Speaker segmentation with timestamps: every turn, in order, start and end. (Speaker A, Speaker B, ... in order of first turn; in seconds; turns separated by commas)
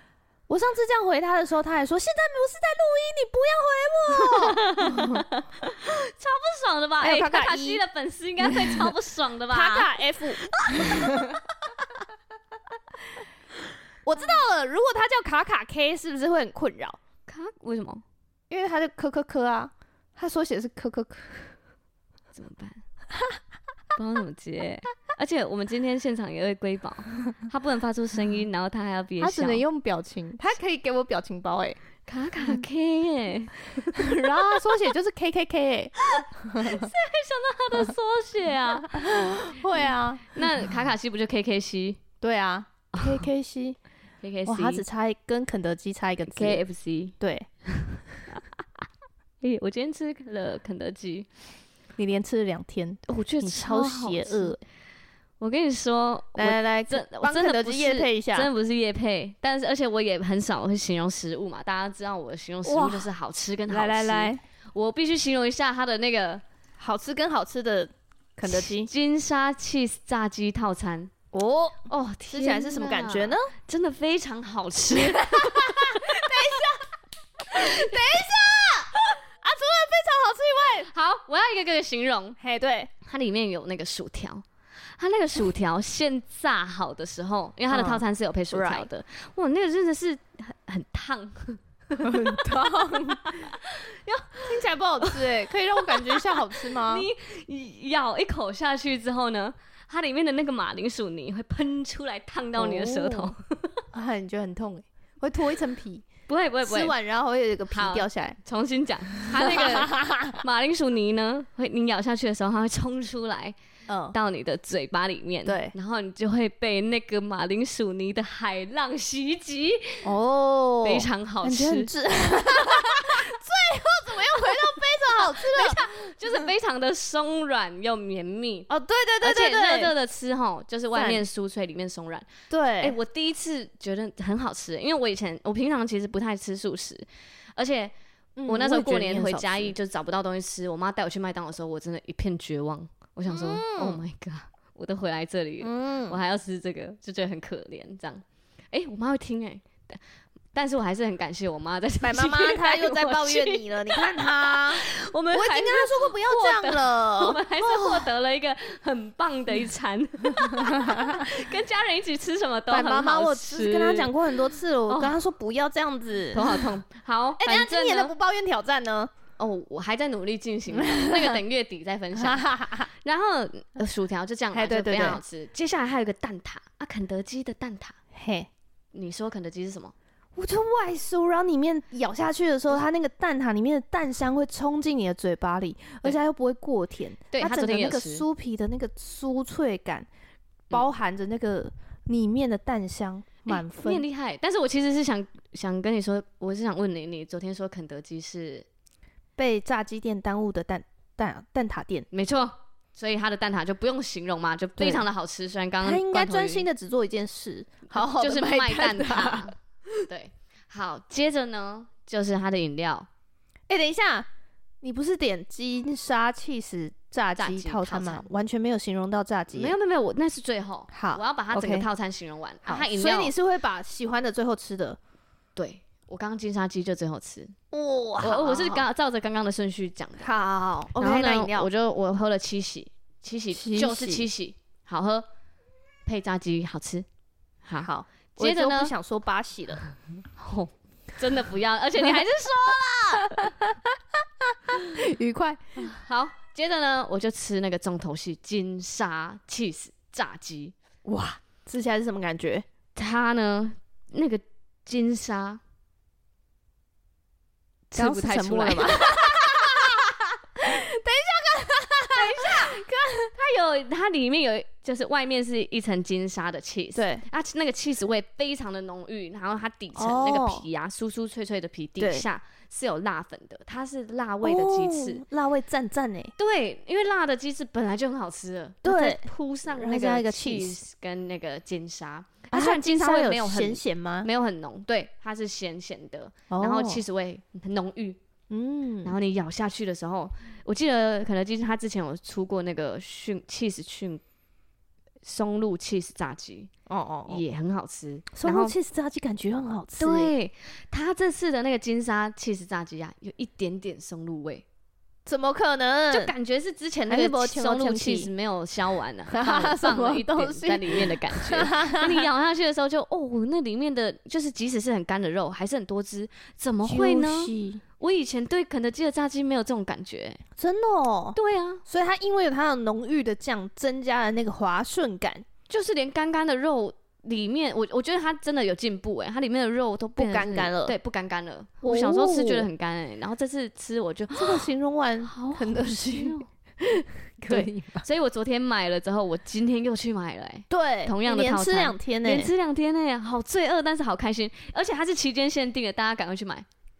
Speaker A: 0.5-5.2, Speaker B: 4.1-9.9, Speaker A: 7.0-7.8, Speaker A: 8.4-8.9, Speaker A: 9.5-11.4, Speaker B: 10.4-11.3, Speaker A: 14.0-17.0, Speaker B: 17.3-18.0, Speaker A: 18.5-21.5, Speaker B: 22.3-22.8, Speaker B: 23.9-29.6, Speaker A: 29.2-31.8, Speaker B: 32.0-34.6, Speaker A: 33.9-36.9, Speaker B: 36.1-42.0, Speaker A: 38.9-40.5, Speaker A: 42.2-43.8, Speaker B: 43.0-43.2, Speaker B: 44.2-44.8, Speaker A: 44.5-46.6, Speaker B: 46.3-47.1, Speaker A: 47.2-47.5, Speaker B: 48.3-48.9, Speaker B: 49.4-51.3, Speaker A: 52.0-54.6, Speaker B: 53.1-54.5, Speaker B: 55.4-66.4, Speaker A: 56.3-58.5, Speaker A: 62.6-63.1, Speaker A: 63.7-64.4, Speaker A: 66.8-68.9, Speaker B: 68.5-71.1, Speaker A: 71.3-73.5, Speaker B: 71.9-76.6, Speaker A: 75.1-80.9, Speaker B: 77.5-78.3, Speaker B: 80.8-82.4, Speaker A: 82.4-82.9, Speaker B: 83.0-103.8, Speaker A: 87.7-88.9, Speaker A: 92.0-93.4, Speaker A: 94.4-97.1, Speaker A: 102.5-103.3, Speaker A: 103.9-106.1, Speaker B: 106.3-106.9, Speaker A: 106.6-108.4, Speaker B: 107.7-113.5, Speaker A: 109.2-110.4, Speaker A: 113.9-114.2, Speaker B: 114.1-120.1, Speaker A: 115.4-115.7, Speaker A: 120.0-125.8, Speaker B: 120.8-121.9, Speaker B: 122.5-123.2, Speaker B: 124.3-128.7, Speaker A: 128.7-129.9, Speaker B: 129.2-132.3, Speaker A: 130.9-131.2, Speaker A: 132.5-133.0, Speaker B: 132.8-137.9, Speaker A: 138.3-139.7, Speaker B: 138.4-150.0, Speaker A: 143.3-144.0, Speaker A: 145.6-146.2, Speaker B: 150.5-164.3, Speaker A: 152.0-158.1, Speaker A: 160.5-161.2, Speaker A: 162.7-166.7, Speaker B: 164.9-165.2, Speaker B: 166.3-168.1, Speaker A: 167.4-169.1, Speaker B: 169.4-177.9, Speaker A: 170.7-171.4, Speaker A: 172.1-172.9, Speaker A: 174.5-175.2, Speaker A: 178.1-178.5, Speaker B: 178.9-179.9, Speaker A: 180.3-190.1, Speaker B: 187.3-188.2, Speaker A: 190.7-194.0, Speaker B: 193.5-198.7, Speaker A: 199.4-202.1, Speaker B: 202.1-206.7, Speaker A: 204.8-205.1, Speaker A: 205.8-209.5, Speaker B: 207.9-213.1, Speaker A: 213.7-214.3, Speaker A: 214.8-219.7, Speaker B: 217.4-218.3, Speaker B: 219.5-223.3, Speaker A: 220.9-221.9, Speaker A: 222.6-225.0, Speaker B: 225.6-227.5, Speaker A: 227.7-228.8, Speaker B: 228.2-230.3, Speaker A: 230.2-231.7, Speaker B: 230.9-235.2, Speaker A: 233.5-234.3, Speaker B: 236.1-237.1, Speaker B: 237.6-238.9, Speaker A: 237.8-239.8, Speaker B: 240.4-243.5, Speaker A: 243.3-243.8, Speaker A: 244.7-245.9, Speaker B: 245.8-250.7, Speaker A: 251.0-252.6, Speaker B: 252.9-255.6, Speaker B: 257.9-259.9, Speaker A: 257.9-263.3, Speaker B: 262.1-262.8, Speaker B: 263.3-275.2, Speaker A: 266.9-267.2, Speaker A: 269.9-270.6, Speaker A: 272.0-272.2, Speaker A: 274.4-276.3, Speaker B: 276.4-288.2, Speaker A: 278.8-280.8, Speaker A: 282.5-284.3, Speaker A: 286.5-287.0, Speaker A: 288.5-289.1, Speaker B: 289.0-294.2, Speaker B: 295.2-296.7, Speaker A: 296.9-297.4, Speaker B: 297.3-298.7, Speaker A: 298.3-300.3, Speaker B: 300.0-304.6, Speaker A: 305.2-306.3, Speaker B: 306.1-320.4, Speaker A: 307.1-308.3, Speaker A: 309.3-312.3, Speaker A: 316.8-317.8, Speaker A: 320.6-325.4, Speaker B: 321.3-321.8, Speaker B: 325.7-334.7, Speaker A: 330.1-330.9, Speaker A: 331.8-332.7, Speaker A: 334.3-338.1, Speaker B: 335.2-336.5, Speaker B: 337.5-346.6, Speaker A: 340.7-342.5